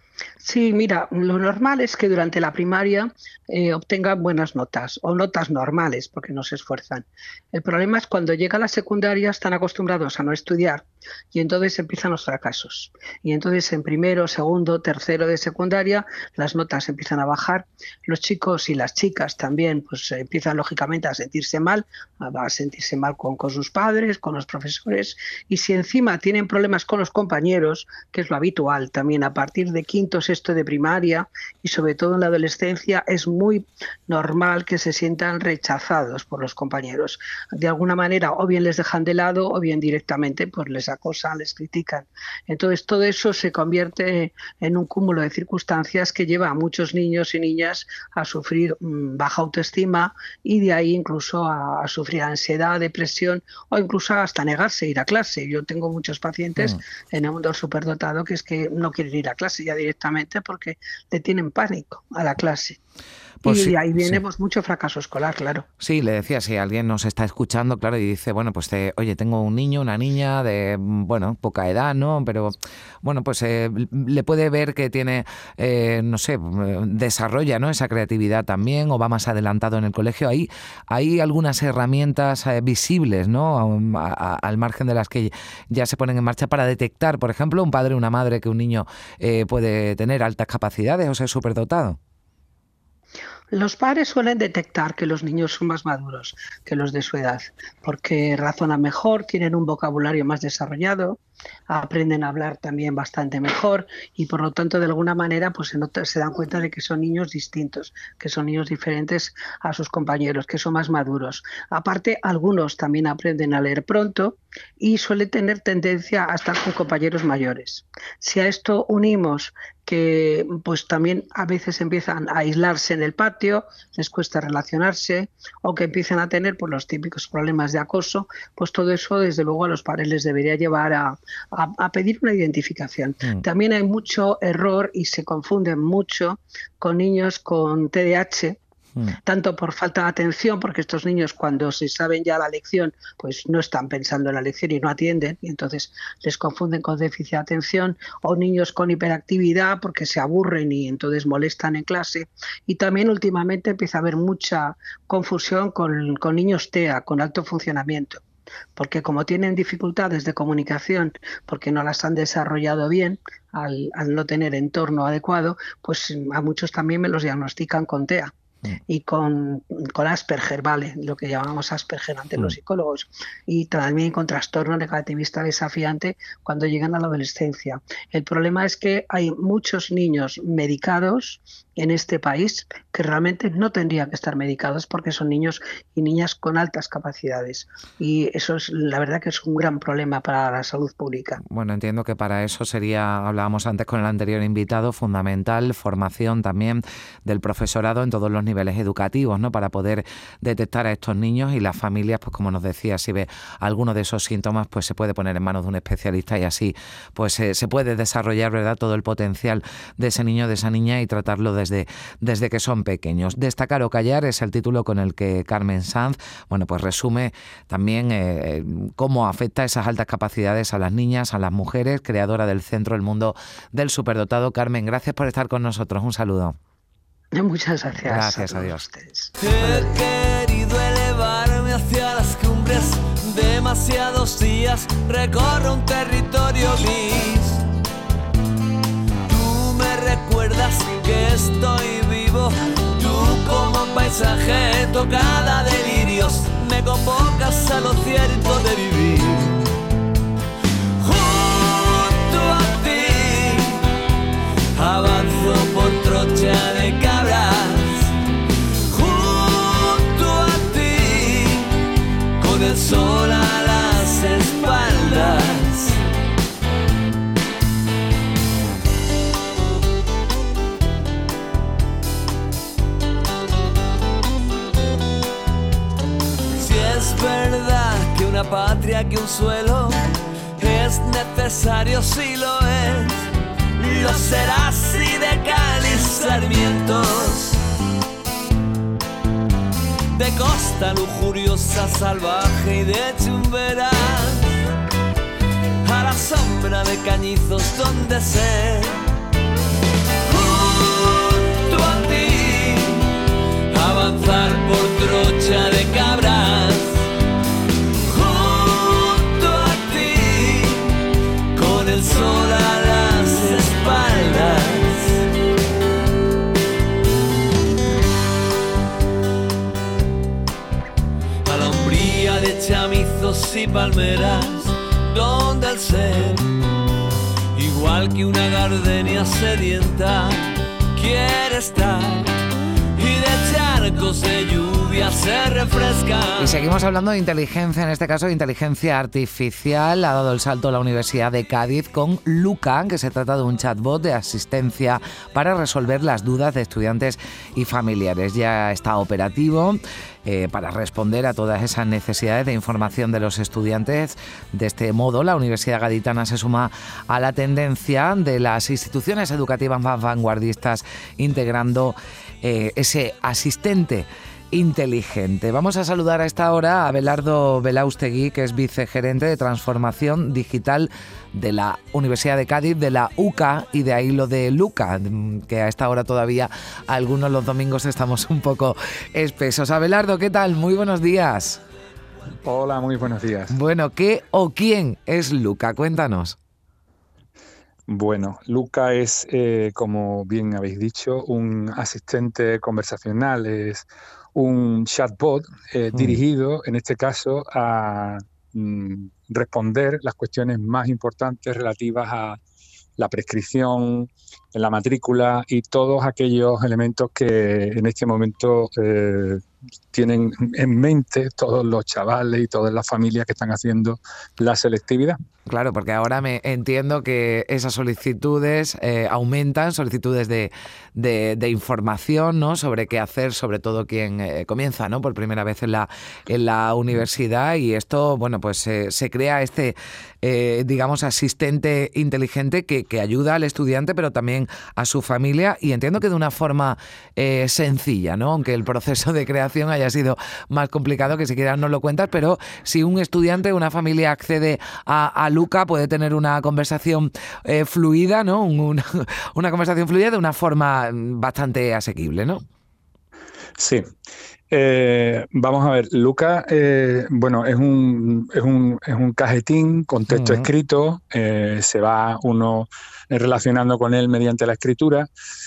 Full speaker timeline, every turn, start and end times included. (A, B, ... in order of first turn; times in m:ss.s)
0:00.4-1:02.8 A
1:03.4-1:04.2 B
1:03.4-1:05.7 A
1:05.8-1:32.0 B
1:33.5-2:18.6 A
2:19.2-2:38.2 A
2:38.8-2:48.3 A
2:48.9-3:11.4 A
3:11.5-3:46.6 B
3:47.3-3:49.9 A
3:48.1-3:48.8 B
3:49.4-3:57.6 C
3:59.3-4:09.6 C
4:11.0-4:13.9 C
4:14.8-4:18.1 C
4:18.9-4:21.8 C
4:22.4-4:26.0 C
4:36.6-4:47.6 C
4:50.1-4:54.6 C
4:55.8-4:59.0 C
5:00.2-5:03.2 C
5:03.7-5:07.1 C
5:08.0-5:11.0 C
5:11.5-5:15.2 C
5:21.4-5:26.5 C
5:27.5-5:32.4 C
5:33.0-5:36.6 C
5:36.4-6:21.6 B
6:22.4-6:23.6 D
6:23.5-6:26.4 B
6:27.9-6:42.4 D
6:35.9-6:36.2 B
6:43.0-6:55.2 D
6:55.5-7:32.4 B
7:33.6-7:33.9 D
7:34.5-7:45.1 D
7:40.1-7:40.5 B